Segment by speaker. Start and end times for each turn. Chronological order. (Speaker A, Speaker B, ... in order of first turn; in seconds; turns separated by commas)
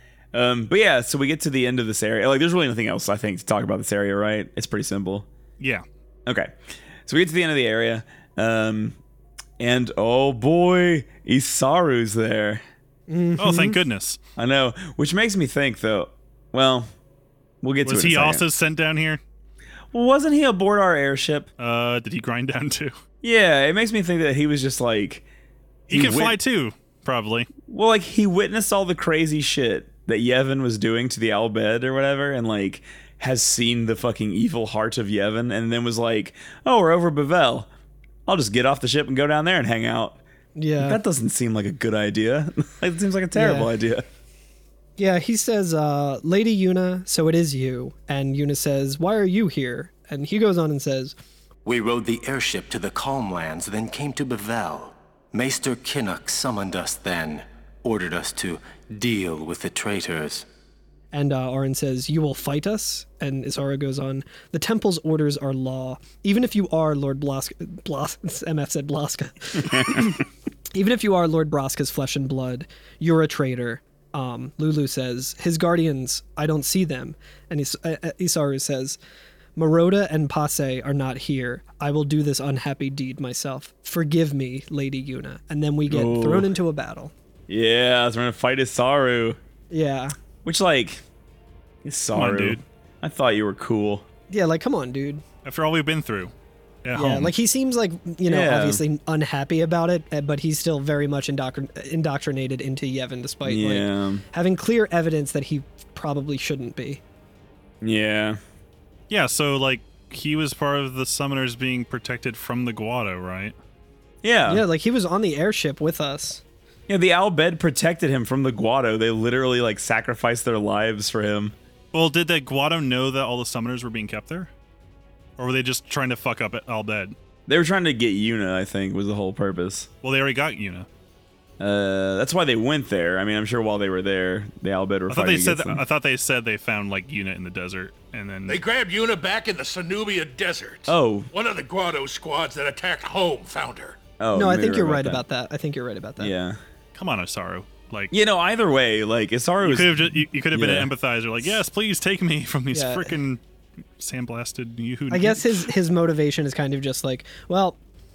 Speaker A: 0.3-5.3, Speaker A: 6.3-6.5, Speaker A: 7.1-9.0, Speaker A: 9.6-12.6, Speaker B: 13.1-13.8, Speaker C: 13.4-14.2, Speaker A: 14.4-16.9, Speaker A: 17.6-18.4, Speaker C: 17.9-19.2, Speaker A: 19.9-21.5, Speaker C: 21.6-22.9, Speaker A: 23.2-25.2, Speaker A: 25.9-26.4, Speaker C: 25.9-27.5, Speaker A: 27.7-37.7, Speaker A: 38.3-40.2, Speaker B: 40.6-41.0, Speaker A: 40.8-44.0, Speaker B: 43.4-43.7, Speaker B: 45.0-51.1, Speaker D: 51.6-60.5, Speaker B: 61.1-79.0, Speaker B: 79.6-87.1, Speaker A: 85.9-86.5, Speaker A: 87.5-89.4, Speaker B: 89.7-90.2, Speaker A: 90.5-91.0, Speaker A: 91.8-94.1, Speaker C: 92.1-92.6, Speaker B: 94.3-95.2, Speaker C: 95.5-96.3, Speaker C: 96.8-97.3, Speaker B: 97.0-107.0, Speaker A: 98.3-98.8, Speaker A: 103.5-104.2, Speaker A: 107.8-108.4, Speaker C: 109.1-113.5, Speaker A: 114.2-114.6, Speaker B: 114.5-116.4, Speaker A: 116.9-121.5, Speaker C: 121.9-124.5, Speaker C: 125.4-127.2, Speaker A: 127.5-129.9, Speaker C: 130.0-130.9, Speaker A: 131.6-135.8, Speaker C: 135.1-138.6, Speaker E: 138.5-144.0, Speaker A: 140.9-141.3, Speaker A: 144.2-145.2, Speaker B: 144.3-146.3, Speaker A: 146.2-146.6, Speaker C: 146.9-148.1, Speaker A: 148.1-150.9, Speaker C: 149.6-153.4, Speaker B: 152.7-153.1, Speaker C: 154.0-155.7, Speaker B: 155.1-157.8